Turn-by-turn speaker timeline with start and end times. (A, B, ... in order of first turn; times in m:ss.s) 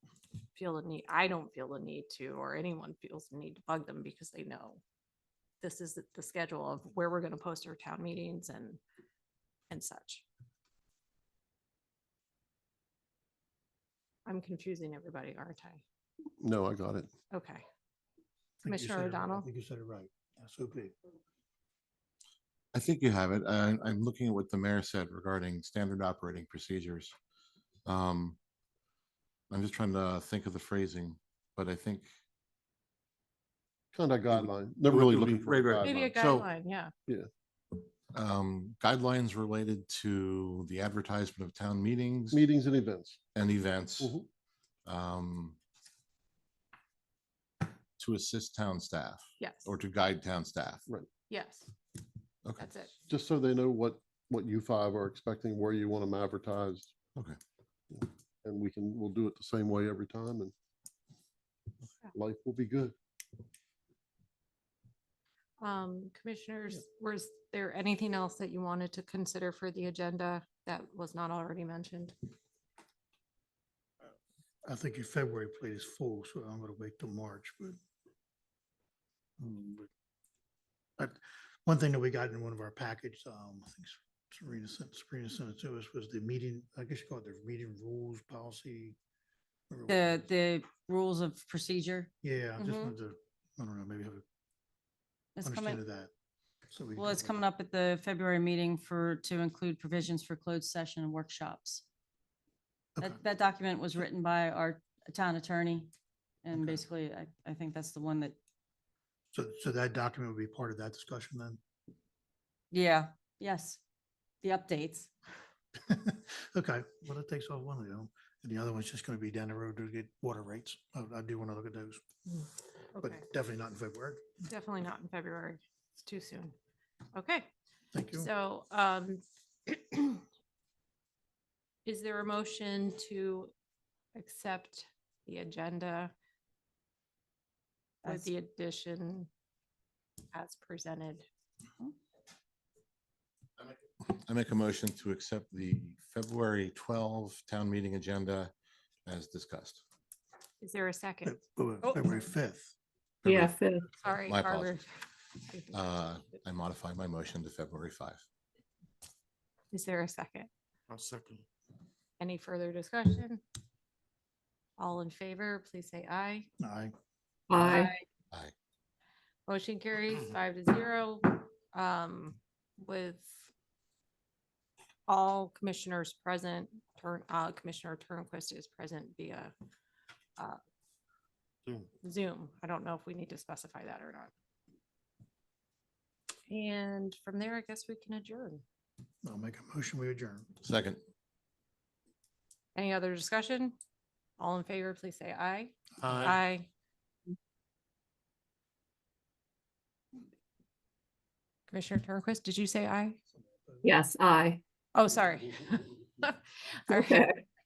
0:00.5-0:04.8 A
0:05.6-0:08.8 A
0:09.7-0:10.2 A
0:14.2-0:15.8 A
0:16.4-0:17.1 B
0:17.3-0:17.6 A
0:18.6-0:20.9 C
0:18.6-0:19.5 A
0:22.7-0:27.1 D
0:27.8-0:28.4 D
0:29.5-0:32.1 D
0:33.9-0:36.2 B
0:34.3-0:36.5 E
0:35.8-0:36.9 A
0:38.1-0:42.4 D
0:42.3-0:43.2 B
0:43.3-0:44.1 D
0:44.0-0:44.3 B
0:44.8-0:45.6 D
0:48.0-0:50.8 D
0:49.4-0:49.7 A
0:51.3-0:51.7 A
0:52.6-0:52.9 A
0:53.1-0:56.9 B
0:57.9-1:00.5 B
1:02.1-1:02.9 B
1:05.6-1:12.1 A
1:14.6-1:17.8 C
1:19.4-1:19.9 C
1:21.0-1:29.0 C
1:29.7-1:30.2 C
1:29.9-1:32.1 F
1:32.2-1:34.2 C
1:32.6-1:32.9 A
1:35.4-1:35.8 F
1:35.4-1:36.1 C
1:36.7-1:37.4 C
1:37.0-1:41.8 F
1:43.0-1:45.9 F
1:46.4-1:48.4 F
1:46.5-1:46.8 C
1:49.3-1:51.6 C
1:52.7-1:53.8 F
1:54.4-1:55.1 F
1:55.8-2:02.0 C
2:02.9-2:03.2 A
2:03.0-2:04.2 C
2:04.5-2:06.5 A
2:07.1-2:07.5 A
2:07.9-2:08.3 C
2:08.1-2:10.2 A
2:11.8-2:13.5 A
2:14.1-2:16.1 A
2:18.0-2:19.3 A
2:18.0-2:18.3 F
2:20.3-2:21.3 A
2:23.6-2:28.5 D
2:29.0-2:29.8 D
2:30.6-2:32.0 A
2:31.2-2:32.7 C
2:33.2-2:33.5 D
2:33.3-2:33.9 G
2:34.0-2:34.9 A
2:34.2-2:34.8 D
2:35.5-2:35.8 A
2:35.7-2:38.2 D
2:39.7-2:40.5 A
2:40.9-2:41.4 E
2:42.2-2:43.4 A
2:44.8-2:46.5 A
2:46.6-2:46.9 C
2:47.5-2:48.0 G
2:47.6-2:47.9 A
2:49.5-2:53.5 A
2:55.1-2:59.5 A
3:02.0-3:04.3 A
3:06.5-3:08.6 A
3:09.2-3:10.5 C
3:10.6-3:11.0 D
3:12.7-3:13.8 A
3:14.4-3:16.7 A
3:21.7-3:23.2 A
3:23.4-3:23.9 C
3:23.8-3:24.6 G
3:24.9-3:27.3 A
3:26.9-3:27.4 G